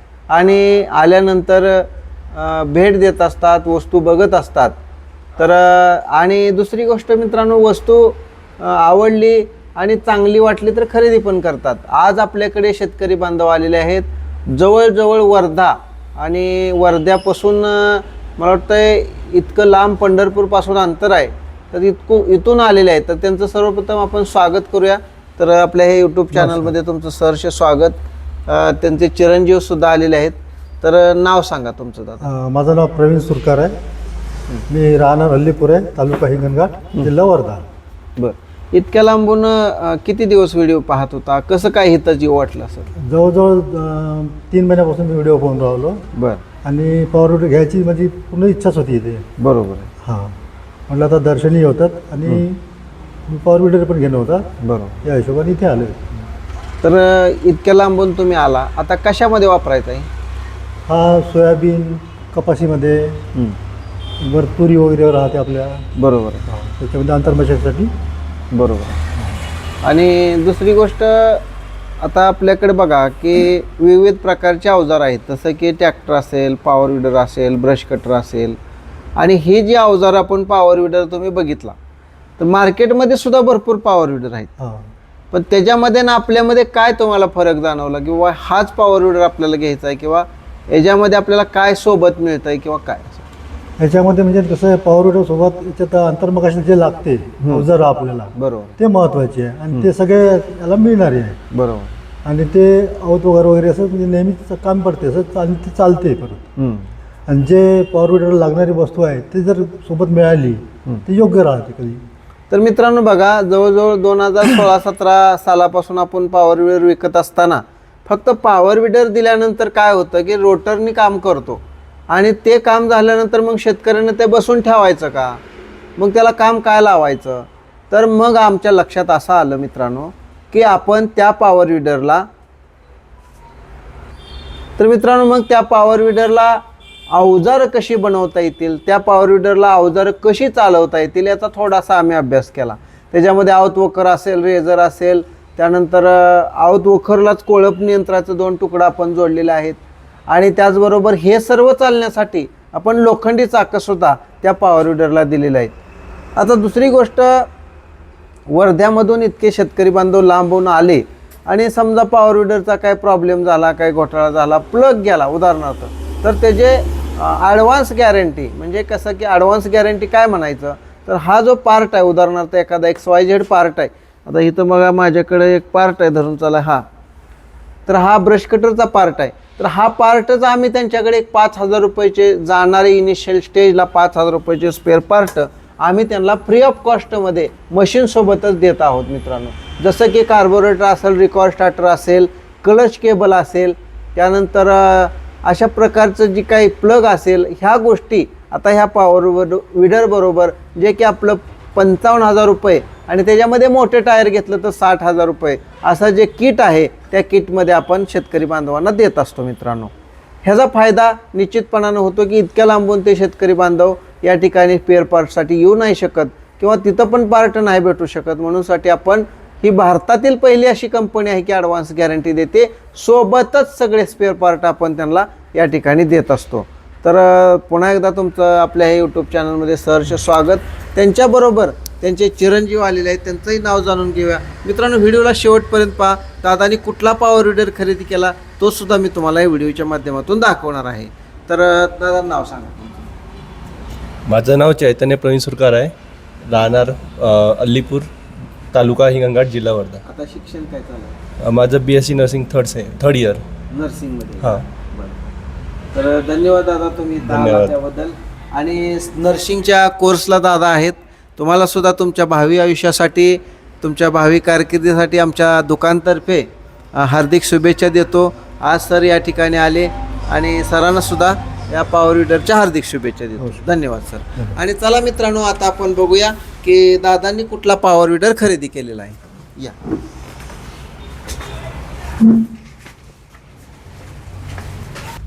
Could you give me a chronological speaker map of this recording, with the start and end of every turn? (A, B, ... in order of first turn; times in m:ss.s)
0:00.3-0:04.7 A
0:05.4-0:28.0 A
0:26.3-0:26.7 B
0:28.5-0:32.3 A
0:32.2-0:33.8 B
0:34.7-0:37.6 B
0:38.2-0:42.9 A
0:43.0-0:46.0 B
0:46.2-0:46.4 A
0:46.6-0:49.3 B
0:49.4-0:49.9 A
0:50.0-0:50.4 B
0:50.9-0:52.6 B
0:53.3-0:56.3 B
0:54.6-0:55.0 A
0:56.8-1:00.1 A
1:00.9-1:03.2 B
1:04.2-1:05.9 B
1:06.0-1:06.4 A
1:06.5-1:07.9 B
1:08.5-1:09.0 A
1:09.8-1:11.4 A
1:12.0-1:18.6 A
1:19.2-1:21.8 A
1:22.4-1:24.5 A
1:24.6-1:24.9 B
1:25.3-1:33.3 A
1:33.8-1:41.4 B
1:37.4-1:37.7 A
1:38.4-1:38.8 A
1:41.5-1:41.9 A
1:42.2-1:46.4 B
1:46.6-1:46.9 A
1:47.3-1:52.0 B
1:52.5-2:05.4 A
2:06.0-2:12.3 A
2:14.8-2:35.7 A
2:36.4-2:37.5 A
2:38.5-2:56.8 A
2:57.9-3:29.9 A
3:30.4-4:03.1 A
4:04.3-4:05.9 C
4:06.5-4:08.1 C
4:08.7-4:10.0 C
4:10.0-4:11.2 A
4:11.4-4:13.4 C
4:13.7-4:15.2 A
4:15.9-4:39.8 A
4:17.2-4:17.7 C
4:33.4-4:33.7 B